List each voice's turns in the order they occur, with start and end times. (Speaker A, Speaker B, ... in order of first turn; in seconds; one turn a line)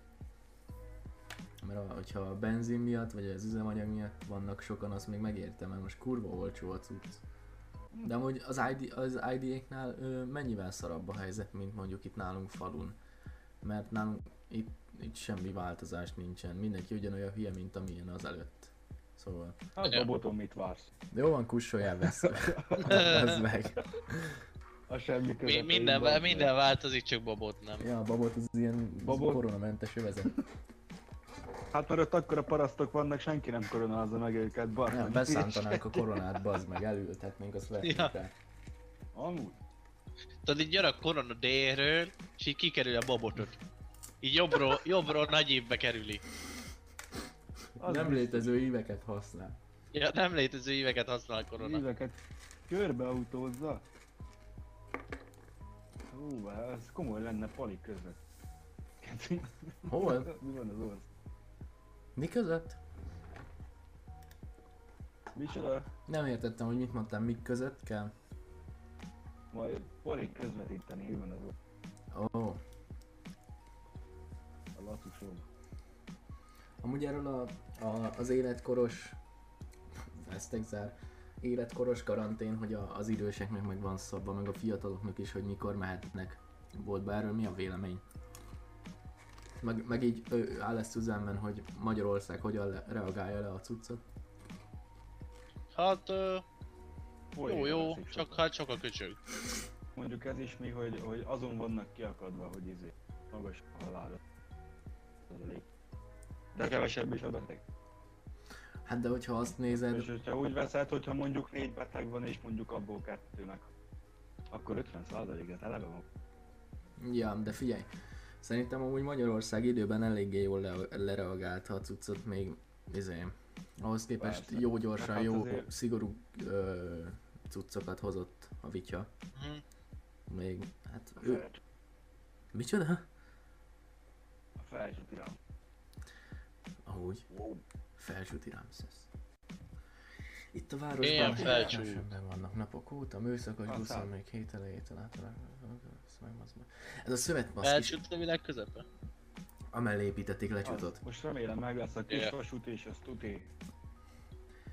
Speaker A: 1.6-7.2
Speaker A: 8.0-13.0
Speaker A: 13.6-19.6
Speaker B: 19.7-20.9
Speaker C: 19.8-20.1
Speaker A: 21.1-24.4
Speaker B: 22.0-23.5
Speaker C: 22.8-23.4
Speaker B: 24.9-26.5
Speaker C: 25.4-27.9
Speaker A: 27.8-30.4
Speaker B: 29.1-29.4
Speaker B: 31.7-36.0
Speaker A: 34.9-38.3
Speaker C: 37.8-38.1
Speaker B: 39.1-39.6
Speaker C: 40.4-43.6
Speaker C: 44.2-46.2
Speaker B: 47.8-48.5
Speaker A: 47.8-49.6
Speaker C: 49.9-51.8
Speaker B: 51.6-53.8
Speaker B: 56.1-58.2
Speaker B: 59.0-61.1
Speaker A: 59.9-60.3
Speaker A: 62.1-62.8
Speaker B: 65.3-65.9
Speaker A: 66.1-68.1
Speaker B: 69.5-71.5
Speaker A: 72.1-72.6
Speaker B: 74.7-75.5
Speaker A: 76.8-79.2
Speaker A: 80.0-88.0
Speaker A: 89.6-94.0
Speaker C: 95.7-96.4
Speaker B: 97.3-98.4
Speaker C: 97.4-99.2
Speaker B: 100.0-104.2
Speaker B: 105.3-105.7
Speaker B: 106.5-107.6
Speaker A: 108.8-110.1
Speaker B: 109.7-113.7
Speaker B: 114.5-116.0
Speaker A: 117.0-117.9
Speaker A: 118.4-129.1
Speaker B: 124.2-125.7
Speaker C: 129.3-129.6
Speaker A: 130.3-131.4
Speaker B: 131.2-131.6
Speaker A: 132.5-133.1
Speaker B: 134.6-135.4
Speaker A: 136.8-137.2
Speaker B: 137.3-137.6
Speaker A: 138.0-139.1
Speaker A: 140.5-148.0
Speaker C: 141.0-142.1
Speaker B: 141.2-141.7
Speaker B: 143.7-144.1
Speaker C: 147.6-148.9
Speaker A: 149.7-151.0
Speaker B: 150.6-153.5